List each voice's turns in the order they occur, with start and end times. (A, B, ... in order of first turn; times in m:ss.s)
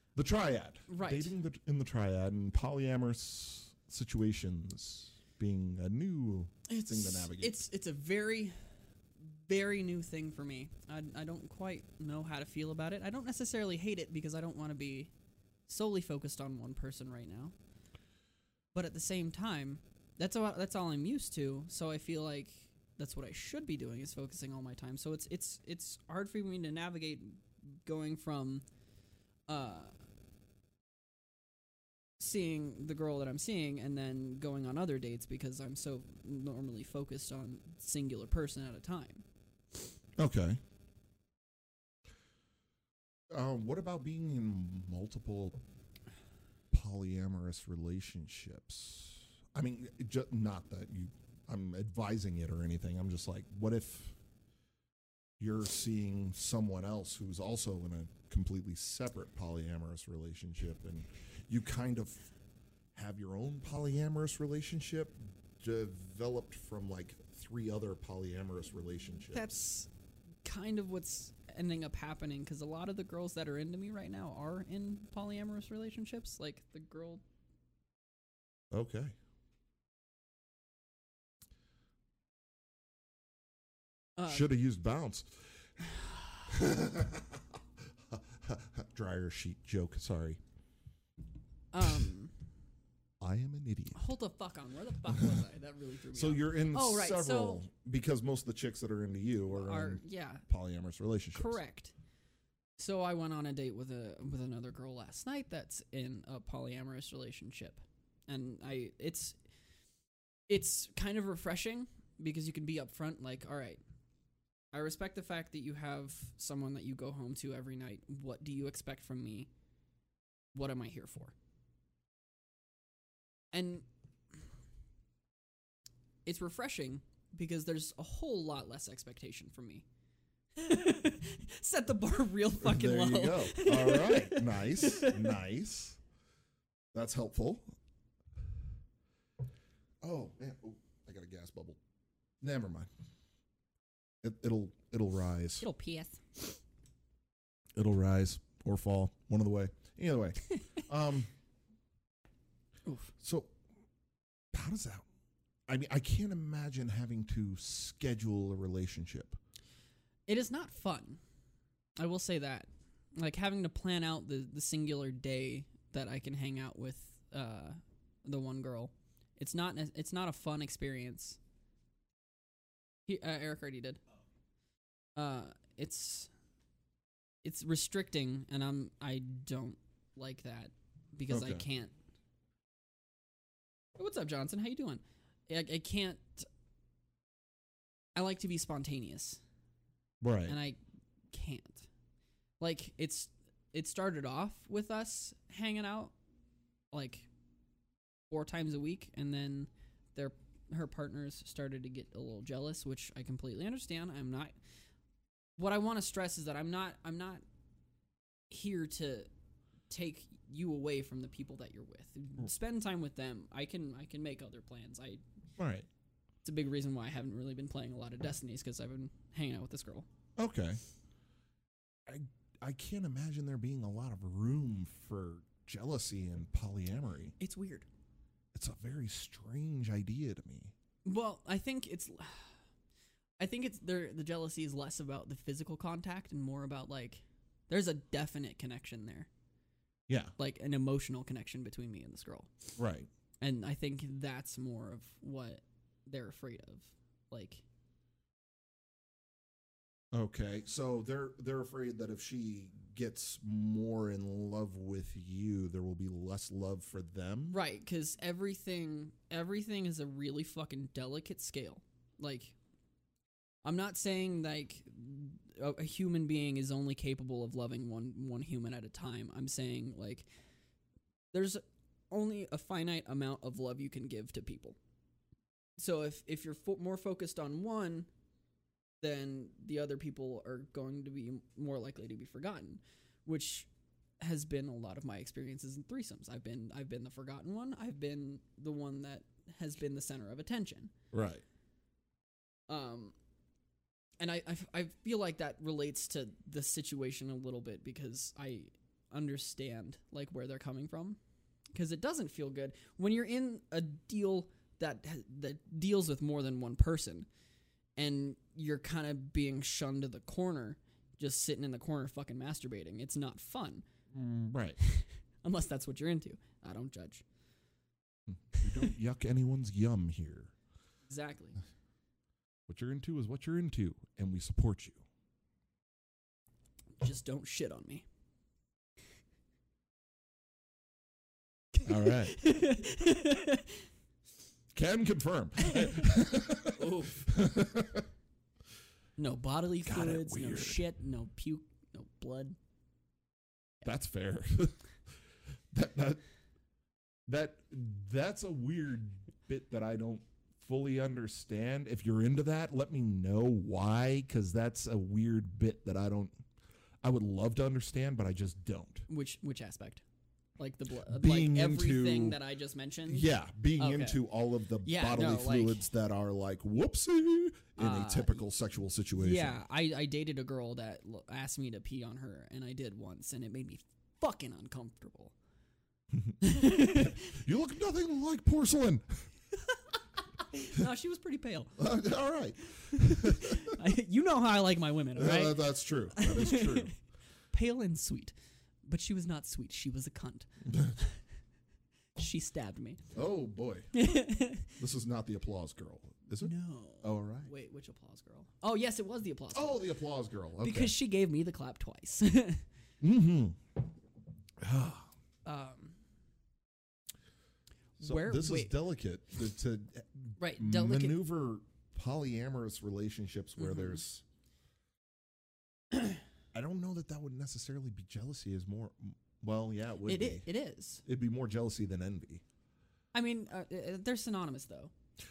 0:00.2-0:07.6 A
0:00.9-0:01.3 B
0:06.7-0:08.6 B
0:09.2-0:15.1 B
0:15.7-0:17.5 B
0:18.7-0:28.6 B
0:29.5-0:29.9 B
0:32.2-0:39.2 B
0:40.2-0:40.6 A
0:43.3-0:45.6 A
0:46.7-0:54.2 A
0:55.4-1:02.3 A
1:03.0-1:09.5 A
1:09.3-1:09.9 B
1:10.4-1:17.2 B
1:18.7-1:19.2 A
1:24.2-1:24.5 B
1:24.3-1:25.7 A
1:26.5-1:30.4 A
1:31.7-1:32.3 B
1:33.2-1:34.1 A
1:33.9-1:37.7 B
1:36.1-1:41.6 A
1:39.5-1:40.4 B
1:41.3-1:41.9 B
1:42.8-1:49.4 B
1:50.5-1:53.8 B
1:54.7-1:59.5 B
2:00.5-2:01.3 B
2:03.5-2:03.9 B
2:06.2-2:09.8 B
2:10.6-2:15.3 B
2:12.6-2:16.0 A
2:16.9-2:17.7 A
2:20.0-2:21.8 A
2:22.4-2:22.9 A
2:24.2-2:25.7 A
2:25.6-2:26.6 B
2:27.8-2:31.3 A
2:32.9-2:33.1 B
2:33.2-2:33.5 A
2:34.5-2:35.1 A
2:35.7-2:39.4 A
2:40.3-2:41.2 B
2:42.0-2:51.4 B
2:53.1-2:54.0 B
2:55.2-2:56.3 B
2:57.4-3:01.9 B
3:01.3-3:01.7 A
3:04.0-3:06.5 B
3:08.2-3:09.4 B
3:10.2-3:10.6 A
3:10.5-3:10.8 B
3:11.3-3:11.9 B
3:12.6-3:16.1 B
3:16.9-3:17.3 B
3:18.3-3:24.6 B
3:25.6-3:27.4 B
3:28.5-3:29.3 B
3:29.9-3:35.2 B
3:35.6-3:35.9 A
3:36.4-3:40.1 B
3:40.4-3:40.8 A
3:42.1-3:47.4 A
3:47.4-3:47.9 B
3:48.5-3:50.7 A
3:51.0-3:52.5 B
3:53.4-3:59.3 B
4:00.1-4:00.3 A
4:00.4-4:02.5 B
4:02.8-4:03.1 A
4:03.4-4:07.6 B
4:10.1-4:17.6 A
4:17.5-4:22.6 B
4:23.6-4:30.3 B
4:31.3-4:34.8 B
4:35.8-4:38.1 B
4:39.0-4:43.7 B
4:44.2-4:50.9 B
4:51.1-4:51.4 A
4:52.7-4:53.2 B
4:54.2-5:01.2 B
5:01.7-5:07.3 B
5:08.0-5:13.8 B
5:14.1-5:14.8 A
5:14.8-5:17.2 B
5:18.3-5:20.5 A
5:21.1-5:21.6 B
5:22.7-5:25.1 A
5:27.0-5:28.1 B
5:31.7-5:33.8 B
5:31.8-5:32.4 A
5:34.7-5:38.1 A
5:36.7-5:37.3 B
5:39.2-5:42.6 B
5:39.8-5:40.8 A
5:43.8-5:44.8 A
5:45.7-5:46.2 A
5:47.3-5:56.4 A
5:57.0-5:59.1 A
5:59.1-6:00.0 B
6:00.6-6:04.2 B
6:01.1-6:02.4 A
6:03.1-6:09.6 A
6:04.8-6:05.8 B
6:07.8-6:08.4 B
6:09.2-6:15.3 B
6:16.1-6:19.3 A
6:16.4-6:17.3 B
6:20.5-6:21.8 B
6:21.8-6:23.7 A
6:22.9-6:27.0 B
6:25.2-6:27.0 A
6:27.5-6:31.1 B
6:30.7-6:31.0 A
6:32.2-6:33.0 B
6:33.1-6:33.9 A
6:33.9-6:34.8 B
6:34.8-6:37.5 A
6:36.4-6:39.9 B
6:39.5-6:41.0 A
6:40.6-6:42.6 B
6:43.0-6:43.6 A
6:44.6-6:45.1 A
6:45.5-6:46.0 B
6:48.0-6:48.8 B
6:48.0-6:54.2 A
6:50.4-6:51.2 B
6:53.6-6:54.0 B
6:56.5-7:00.5 A
7:00.1-7:01.0 B
7:01.0-7:02.4 A
7:03.1-7:04.9 B